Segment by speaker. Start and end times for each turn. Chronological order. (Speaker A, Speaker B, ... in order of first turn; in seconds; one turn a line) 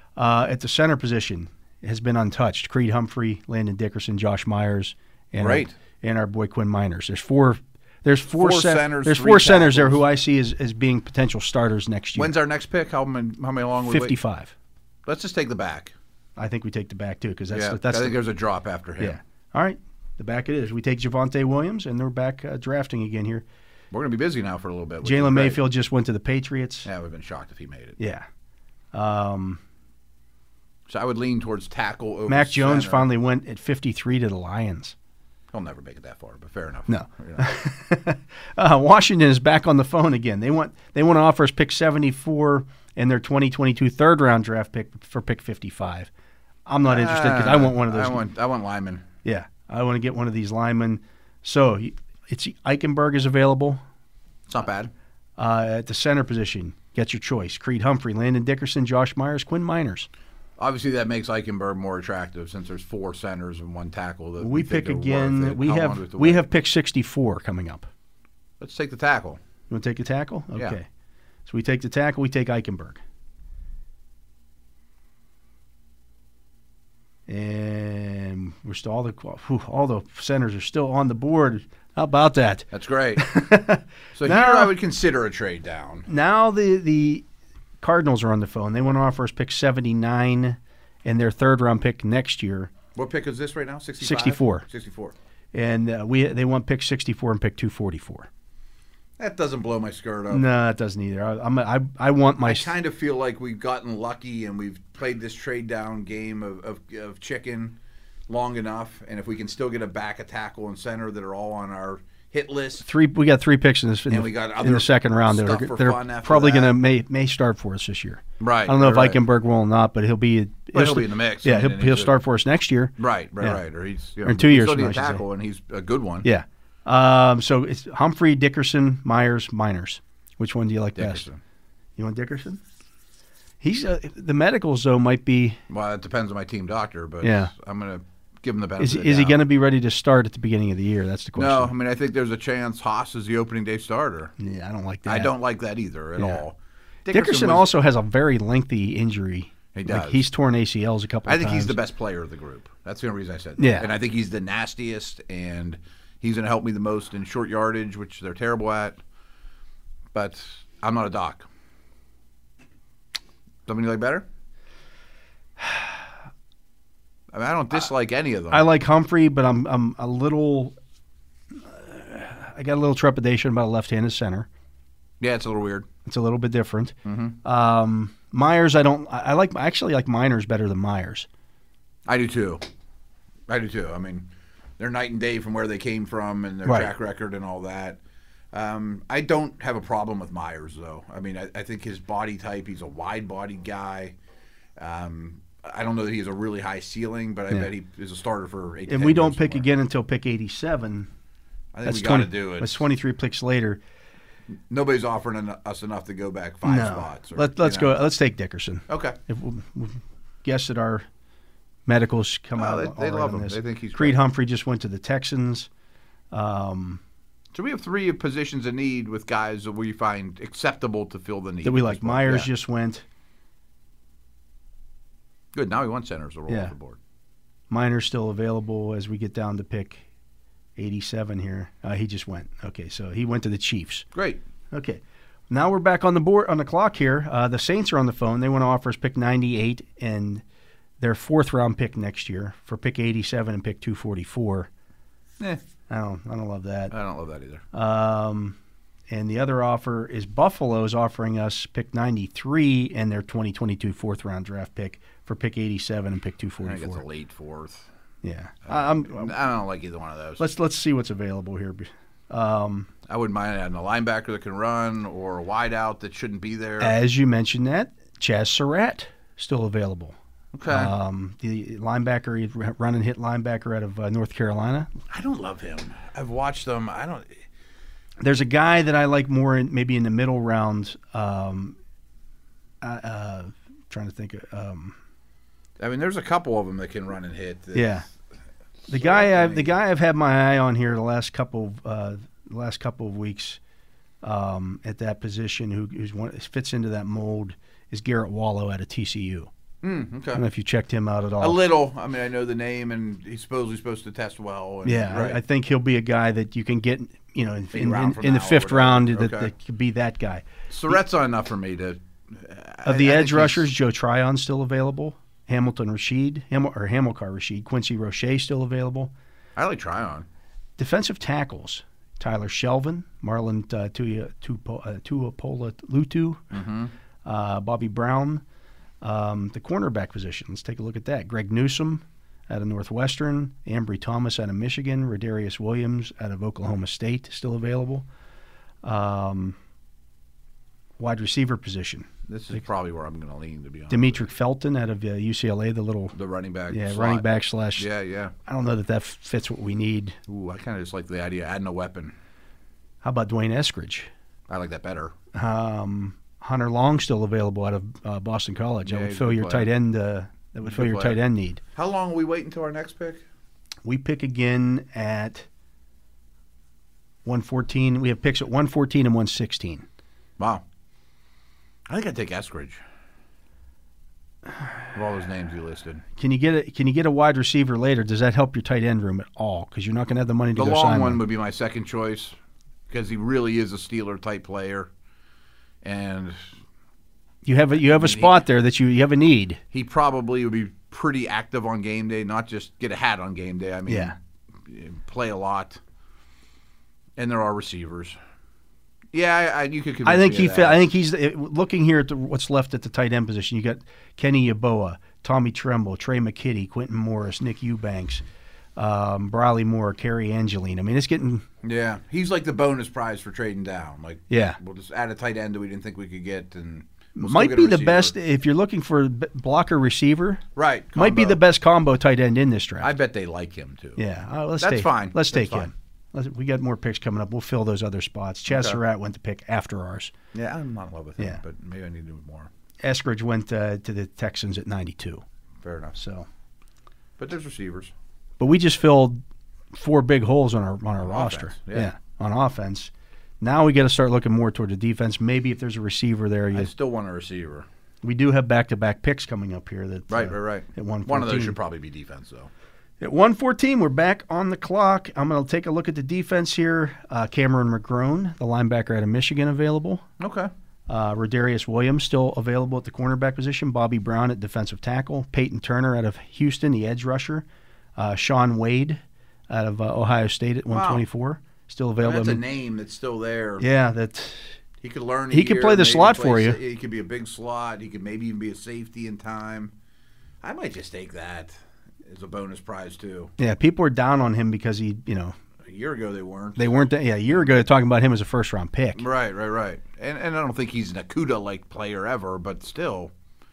Speaker A: 0.2-12.3
Speaker B: 5.4-5.7
Speaker B: 8.3-10.0
Speaker B: 12.2-14.2
Speaker A: 13.8-14.5
Speaker B: 15.1-15.9
Speaker A: 16.4-18.2
Speaker B: 17.5-19.2
Speaker A: 19.0-23.4
Speaker B: 23.9-25.6
Speaker A: 25.0-26.9
Speaker B: 26.8-28.0
Speaker A: 28.0-28.2
Speaker A: 28.9-29.6
Speaker B: 30.9-33.1
Speaker A: 32.3-34.9
Speaker B: 35.5-37.5
Speaker A: 36.9-46.1
Speaker A: 46.7-48.2
Speaker B: 46.9-49.0
Speaker A: 49.2-53.8
Speaker B: 54.5-54.9
Speaker A: 55.4-60.1
Speaker B: 60.6-66.5
Speaker A: 64.4-67.9
Speaker B: 68.6-69.4
Speaker A: 69.7-70.8
Speaker A: 71.5-73.0
Speaker A: 77.3-84.7
Speaker B: 82.7-83.3
Speaker B: 84.1-86.1
Speaker A: 86.1-87.2
Speaker A: 87.8-92.7
Speaker B: 92.9-95.1
Speaker A: 94.0-94.6
Speaker A: 95.5-98.3
Speaker B: 99.2-100.5
Speaker A: 100.3-102.7
Speaker B: 102.4-107.8
Speaker B: 108.3-112.8
Speaker A: 112.8-123.6
Speaker B: 114.1-116.8
Speaker B: 118.4-119.2
Speaker B: 120.7-122.2
Speaker B: 123.0-126.3
Speaker A: 124.2-125.2
Speaker A: 126.2-131.2
Speaker B: 130.9-131.4
Speaker A: 132.0-132.6
Speaker A: 133.6-135.6
Speaker B: 135.7-139.4
Speaker A: 137.2-137.5
Speaker A: 138.8-141.7
Speaker B: 141.3-144.3
Speaker A: 144.4-145.3
Speaker B: 145.1-147.7
Speaker A: 146.2-146.4
Speaker A: 147.1-151.8
Speaker B: 149.7-150.2
Speaker B: 151.2-159.0
Speaker A: 153.6-153.9
Speaker B: 160.1-161.4
Speaker B: 163.7-164.2
Speaker A: 165.6-165.8
Speaker B: 167.3-168.7
Speaker A: 168.5-170.7
Speaker A: 171.6-174.5
Speaker B: 175.2-175.9
Speaker A: 176.0-181.3
Speaker B: 177.0-177.3
Speaker B: 182.1-182.6
Speaker B: 183.5-188.0
Speaker A: 186.6-186.9
Speaker B: 188.5-194.2
Speaker B: 194.8-199.7
Speaker A: 198.9-201.1
Speaker B: 201.7-202.8
Speaker A: 201.8-203.8
Speaker B: 204.7-207.9
Speaker A: 206.6-211.1
Speaker B: 208.9-209.2
Speaker A: 211.8-215.7
Speaker B: 212.6-214.2
Speaker A: 216.3-217.0
Speaker B: 217.5-222.5
Speaker A: 221.6-223.0
Speaker B: 225.5-227.0
Speaker A: 226.5-226.7
Speaker A: 227.7-230.0
Speaker A: 230.8-234.1
Speaker B: 234.1-234.4
Speaker A: 234.7-240.4
Speaker A: 241.0-244.7
Speaker A: 245.9-246.9
Speaker B: 246.9-247.6
Speaker A: 247.7-248.6
Speaker A: 249.1-257.0
Speaker B: 256.6-257.9
Speaker A: 258.2-259.4
Speaker B: 258.6-260.4
Speaker A: 260.4-262.9
Speaker B: 263.1-266.9
Speaker A: 266.8-270.1
Speaker B: 270.5-270.9
Speaker A: 270.7-274.9
Speaker B: 275.1-277.4
Speaker A: 278.2-281.8
Speaker A: 282.8-284.9
Speaker B: 285.8-288.0
Speaker A: 287.7-288.1
Speaker A: 288.9-293.6
Speaker B: 288.9-289.8
Speaker A: 294.2-299.5
Speaker B: 299.8-300.4
Speaker A: 300.3-301.6
Speaker B: 301.4-305.4
Speaker A: 304.8-310.9
Speaker B: 307.7-309.5
Speaker B: 310.7-313.7
Speaker A: 312.8-319.1
Speaker B: 319.6-320.3
Speaker A: 320.8-326.6
Speaker B: 326.5-326.9
Speaker A: 327.2-328.4
Speaker A: 329.0-338.0
Speaker A: 338.8-339.6
Speaker A: 341.0-342.1
Speaker B: 342.3-344.2
Speaker A: 343.9-346.1
Speaker B: 346.1-347.2
Speaker A: 346.7-347.9
Speaker B: 347.8-348.3
Speaker A: 348.4-350.2
Speaker B: 350.3-352.1
Speaker A: 353.0-354.1
Speaker B: 354.5-355.1
Speaker A: 355.3-361.6
Speaker B: 358.8-359.7
Speaker B: 360.6-361.2
Speaker B: 361.7-363.2
Speaker A: 363.8-365.5
Speaker A: 367.2-369.8
Speaker B: 370.4-370.6
Speaker B: 371.9-372.8
Speaker B: 374.9-376.0
Speaker A: 376.1-381.2
Speaker B: 380.6-382.4
Speaker B: 382.9-384.9
Speaker B: 385.8-386.4
Speaker A: 387.4-389.6
Speaker B: 387.8-388.4
Speaker B: 389.7-395.8
Speaker A: 393.9-394.1
Speaker B: 397.2-398.2
Speaker B: 399.1-400.9
Speaker A: 400.0-408.2
Speaker A: 408.8-411.4
Speaker B: 411.6-418.1
Speaker A: 414.3-414.6
Speaker A: 417.1-420.4
Speaker B: 420.6-421.4
Speaker A: 420.9-422.9
Speaker B: 422.8-424.0
Speaker A: 424.0-430.1
Speaker B: 424.6-425.7
Speaker B: 428.5-428.8
Speaker B: 430.3-432.5
Speaker A: 432.8-435.2
Speaker B: 435.6-435.9
Speaker A: 435.9-436.3
Speaker B: 437.2-437.9
Speaker A: 438.4-439.2
Speaker A: 439.7-446.7
Speaker B: 441.0-441.9
Speaker B: 446.5-447.7
Speaker A: 448.0-451.6
Speaker B: 450.1-452.5
Speaker A: 453.0-460.0
Speaker B: 460.2-460.5
Speaker A: 460.9-467.4
Speaker A: 468.0-472.4
Speaker B: 470.7-471.0
Speaker B: 472.0-473.6
Speaker A: 473.6-474.6
Speaker B: 474.8-479.7
Speaker A: 475.3-476.6
Speaker B: 480.4-483.3
Speaker A: 483.4-485.4
Speaker B: 485.6-486.8
Speaker A: 486.6-489.0
Speaker B: 488.9-493.1